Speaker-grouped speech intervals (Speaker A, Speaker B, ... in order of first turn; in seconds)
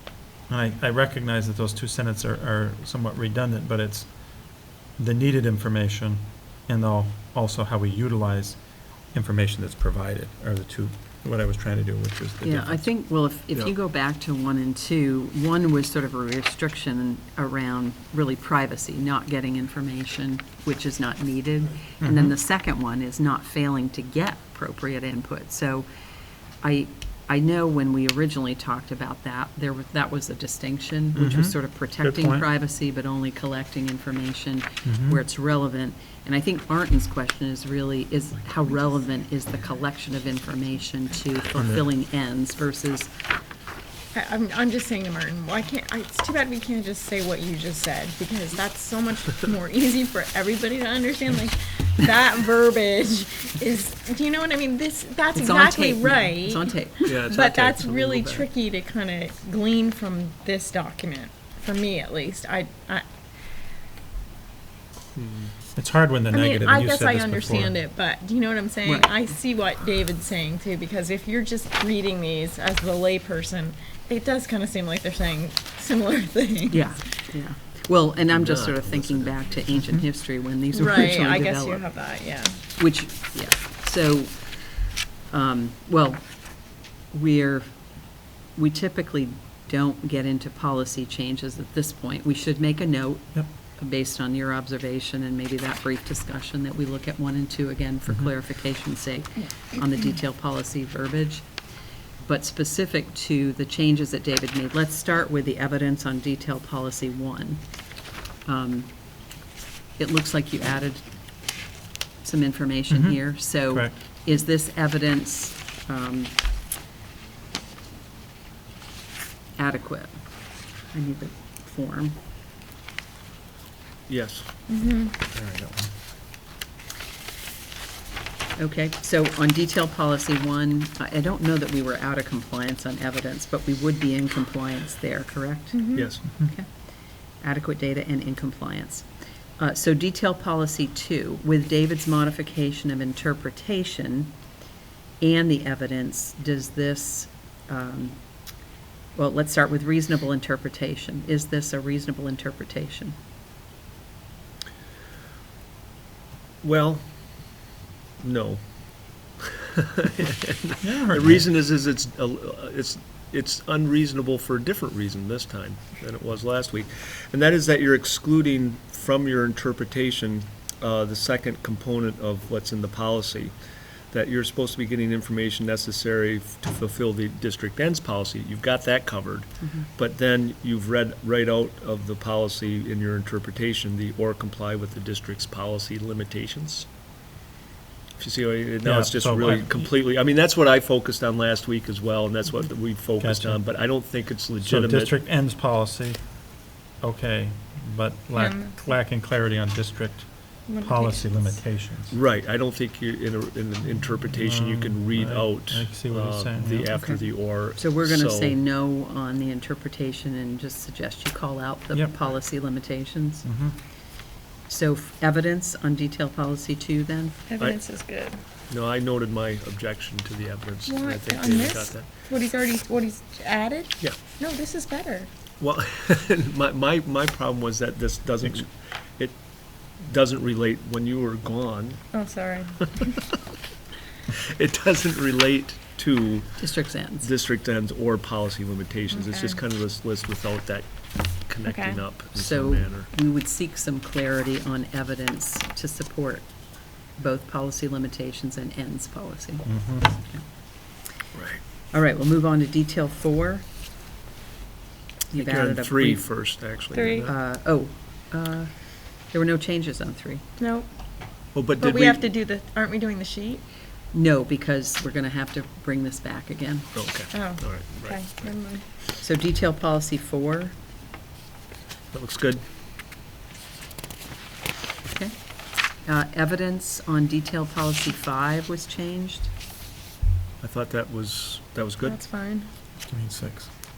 Speaker A: 0.5-12.9, 22.0-22.3, 31.1-32.5, 34.8-35.2, 65.8-67.7, 112.9-113.9, 125.3-125.9, 160.8-161.4, 188.8-189.8, 193.2-193.6, 194.6-202.2, 204.3-206.9, 213.4-213.8, 249.6-250.1, 283.1-283.7
Speaker B: 12.4-25.9, 26.6-43.1, 55.3-57.2, 68.8-69.2, 76.7-81.9, 82.8-84.4, 85.3-87.7, 88.5-101.5, 102.2-107.6, 108.4-108.9, 110.0-111.0, 112.2-116.3, 119.6-120.2, 120.9-122.2, 128.6-136.7, 137.4-139.1, 139.6-144.3, 145.2-148.2, 149.1-153.1, 179.6-179.9, 206.9-213.4, 214.7-217.4, 236.6-237.3, 242.3-246.5, 247.1-250.4, 251.9-253.6, 255.3-256.7, 257.2-260.4, 264.1-266.9, 269.2-270.7, 276.0-279.5
Speaker C: 44.1-63.0, 66.3-77.0, 80.7-82.6, 124.7-125.1, 135.7-136.1, 198.3-198.8, 200.7-201.6, 217.5-218.4, 220.9-225.3, 232.1-233.2, 239.1-239.6, 241.6-242.0, 256.9-257.3, 260.6-260.9, 261.8-263.6, 267.3-268.8, 282.0-282.7
Speaker D: 57.0-58.5, 65.1-65.5, 78.3-80.0, 124.1-124.5, 135.9-136.2, 156.6-157.2, 158.2-173.5, 174.1-186.9, 188.2-195.1, 202.1-208.6, 218.7-222.1, 225.6-229.4, 230.0-232.1, 234.3-243.1, 251.3-251.6, 255.3-257.3, 261.5-262.3, 266.9-268.6, 272.1-272.6, 280.6-282.2